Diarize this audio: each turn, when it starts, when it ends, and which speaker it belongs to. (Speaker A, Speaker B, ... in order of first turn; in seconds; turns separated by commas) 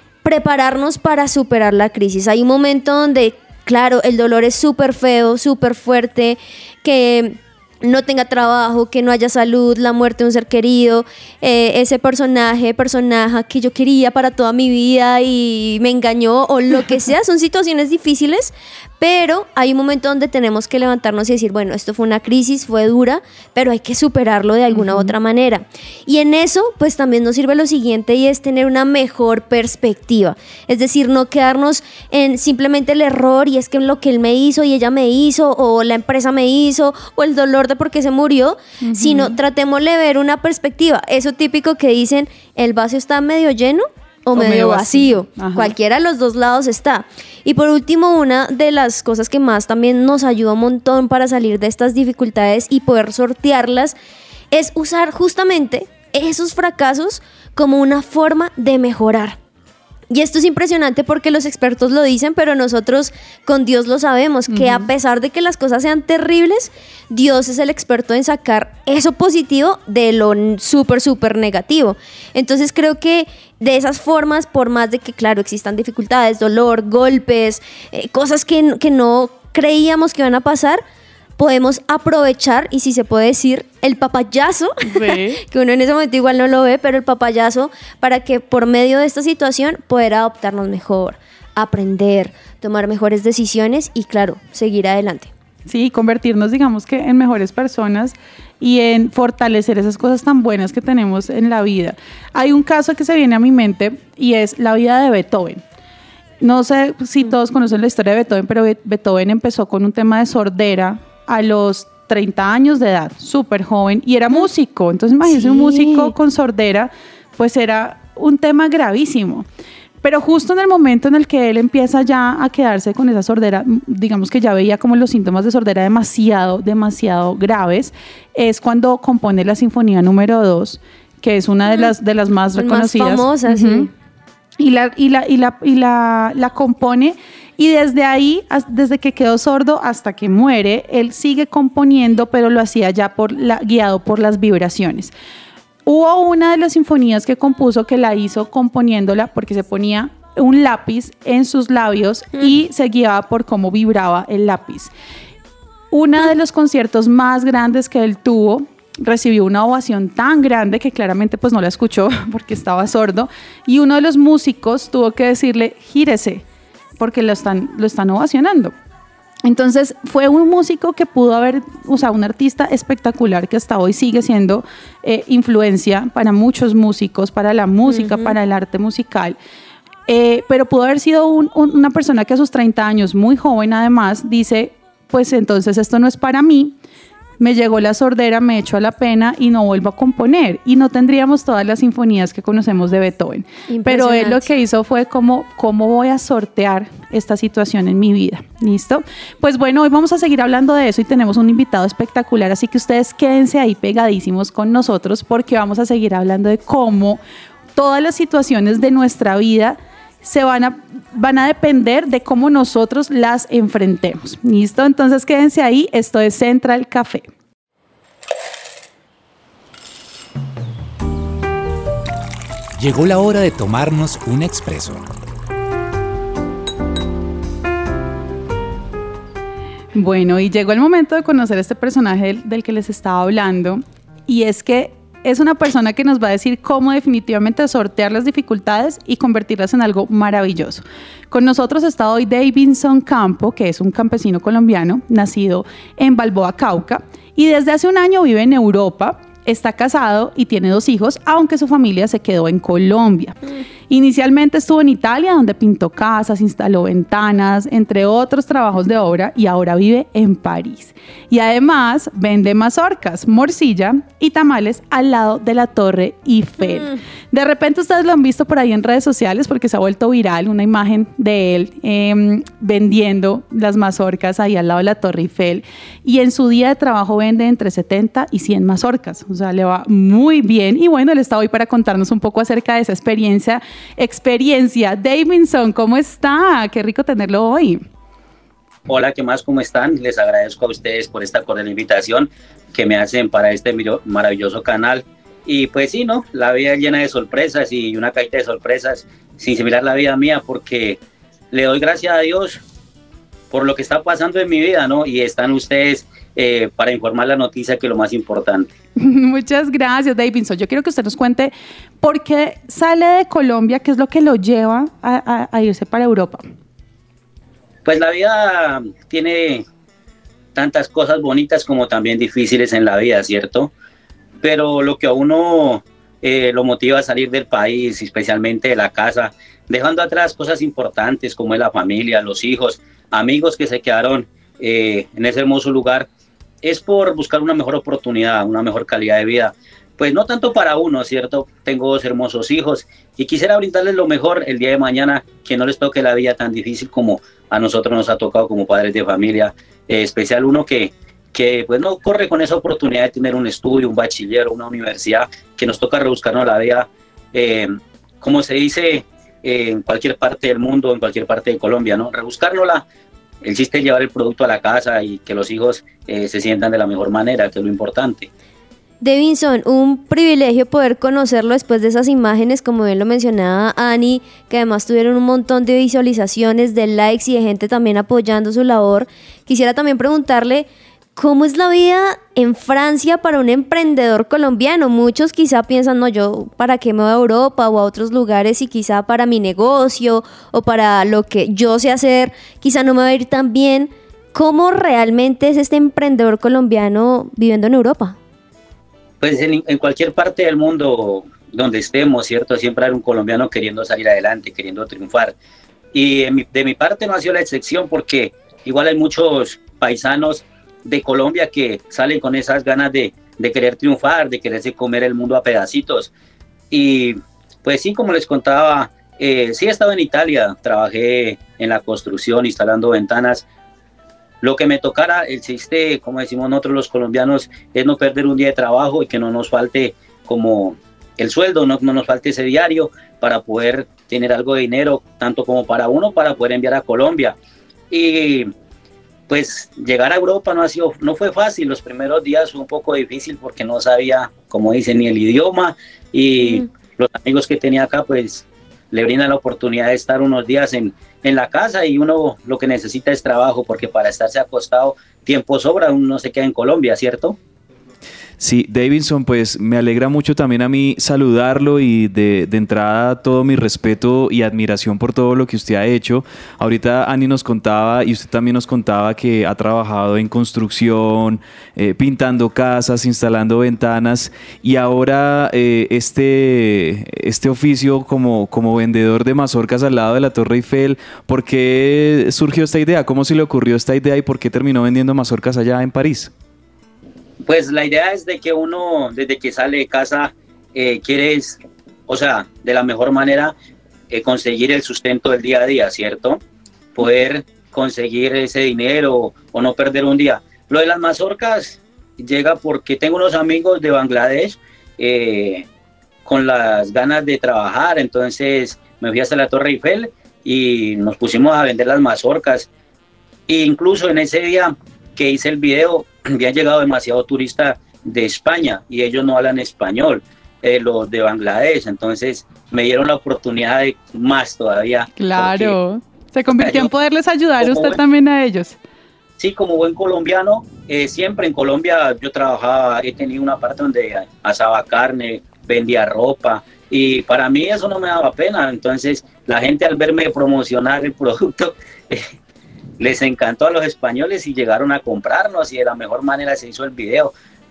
Speaker A: 0.2-53.9, Speaker B: 24.7-25.1, Speaker B: 38.8-39.3, Speaker B: 44.3-45.7, Speaker A: 54.5-59.4, Speaker A: 60.1-80.8, Speaker B: 64.5-64.9, Speaker A: 81.4-95.3, Speaker B: 84.9-85.4, Speaker B: 95.7-105.6, Speaker B: 106.4-119.5, Speaker A: 115.2-116.1, Speaker B: 120.0-133.9, Speaker A: 131.7-131.9, Speaker A: 132.5-133.9, Speaker B: 134.6-145.1, Speaker B: 145.8-154.9, Speaker B: 155.9-166.4, Speaker B: 167.0-168.7, Speaker B: 169.4-179.3, Speaker A: 177.8-178.3, Speaker B: 180.1-186.8, Speaker B: 187.4-207.2, Speaker A: 193.7-194.5, Speaker B: 207.7-217.2, Speaker C: 222.8-225.1, Speaker B: 229.9-287.8, Speaker D: 288.9-301.0, Speaker D: 301.5-302.6, Speaker D: 303.5-308.7, Speaker B: 309.0-316.4, Speaker D: 317.8-319.6, Speaker D: 320.5-323.7, Speaker D: 324.4-336.1, Speaker D: 336.6-362.8, Speaker D: 363.4-368.3, Speaker A: 369.0-398.2, Speaker D: 399.2-405.3, Speaker D: 405.9-416.1, Speaker D: 416.7-423.4, Speaker D: 424.4-437.4, Speaker D: 437.9-438.5, Speaker D: 439.3-457.4, Speaker E: 458.4-486.3, Speaker D: 487.4-493.5, Speaker D: 494.1-496.4, Speaker D: 496.9-505.7, Speaker D: 506.2-512.7, Speaker D: 513.5-525.8, Speaker B: 525.2-528.8, Speaker D: 526.5-526.9, Speaker D: 527.6-528.0, Speaker D: 529.4-542.3, Speaker D: 543.0-547.3